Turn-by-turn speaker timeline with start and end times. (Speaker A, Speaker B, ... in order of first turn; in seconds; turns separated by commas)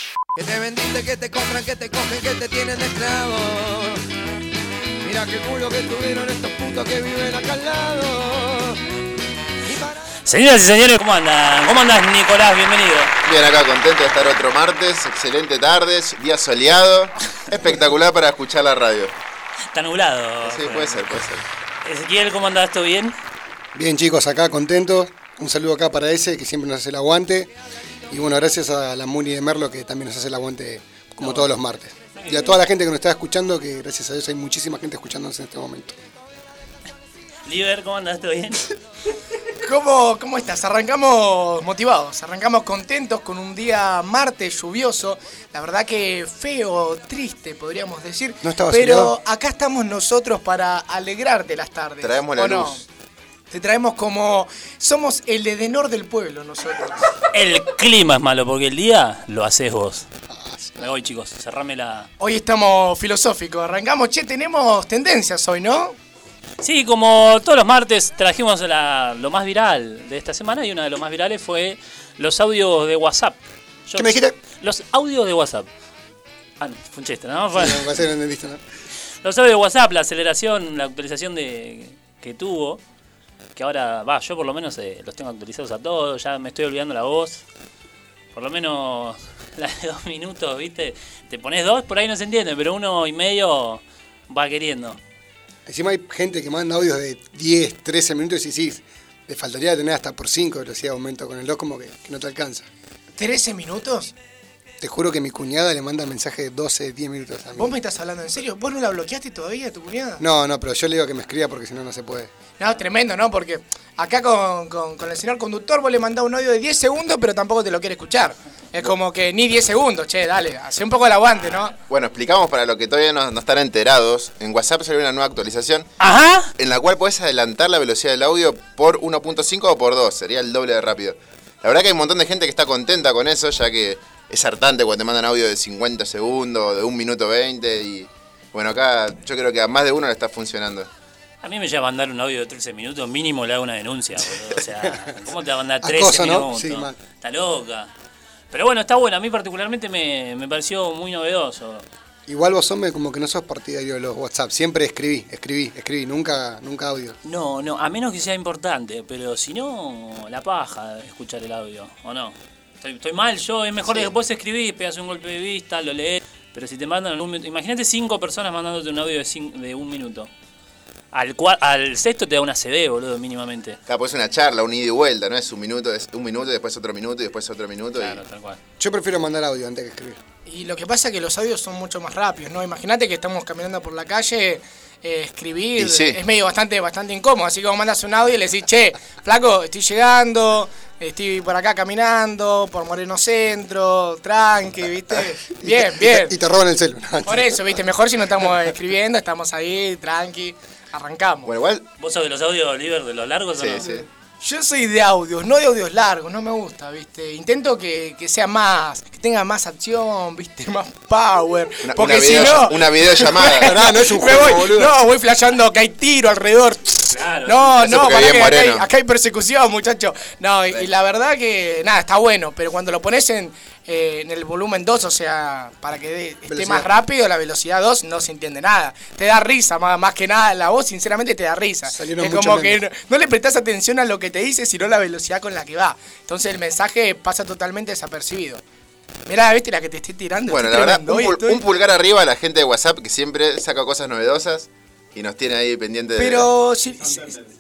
Speaker A: 0.4-4.0, Speaker A: 5.0-8.8, Speaker A: 9.6-10.1, Speaker B: 10.2-13.1, Speaker C: 13.2-19.1, Speaker B: 19.7-21.1, Speaker C: 20.4-21.4, Speaker B: 21.8-23.1, Speaker D: 23.7-27.5, Speaker D: 28.1-36.0, Speaker B: 31.2-31.5, Speaker B: 32.1-32.6, Speaker B: 37.5-38.7, Speaker E: 39.6-52.8, Speaker D: 48.4-49.1, Speaker C: 52.0-52.8, Speaker E: 53.5-57.1, Speaker B: 57.3-60.0, Speaker D: 60.3-60.8, Speaker B: 60.8-62.1, Speaker E: 62.2-66.0, Speaker B: 66.6-75.7, Speaker D: 73.9-74.3, Speaker B: 76.6-77.9, Speaker D: 77.5-78.6, Speaker B: 79.2-82.8, Speaker B: 83.5-87.4, Speaker B: 88.3-95.0, Speaker D: 95.7-102.7, Speaker E: 103.2-104.1, Speaker D: 104.8-107.8, Speaker E: 107.6-110.2, Speaker D: 110.2-112.3, Speaker E: 112.6-121.8, Speaker C: 121.9-125.9, Speaker B: 126.0-126.5, Speaker C: 126.6-140.9, Speaker B: 141.4-147.9, Speaker D: 144.8-145.2, Speaker D: 145.8-147.0, Speaker B: 148.5-151.9, Speaker D: 152.3-157.2, Speaker B: 157.2-170.3, Speaker B: 171.1-173.8, Speaker C: 173.9-178.2, Speaker B: 178.0-178.6, Speaker D: 178.8-180.2, Speaker E: 180.5-196.4, Speaker C: 185.8-186.2, Speaker D: 195.6-197.8, Speaker E: 197.2-201.5, Speaker C: 201.5-201.8, Speaker B: 202.0-203.9, Speaker C: 203.6-204.1, Speaker E: 204.4-238.6, Speaker C: 211.8-213.8, Speaker D: 213.6-214.9, Speaker B: 217.1-217.8, Speaker C: 217.8-218.9, Speaker D: 226.5-226.9, Speaker D: 231.9-232.8, Speaker E: 239.3-241.6, Speaker C: 240.5-246.5, Speaker E: 246.2-247.4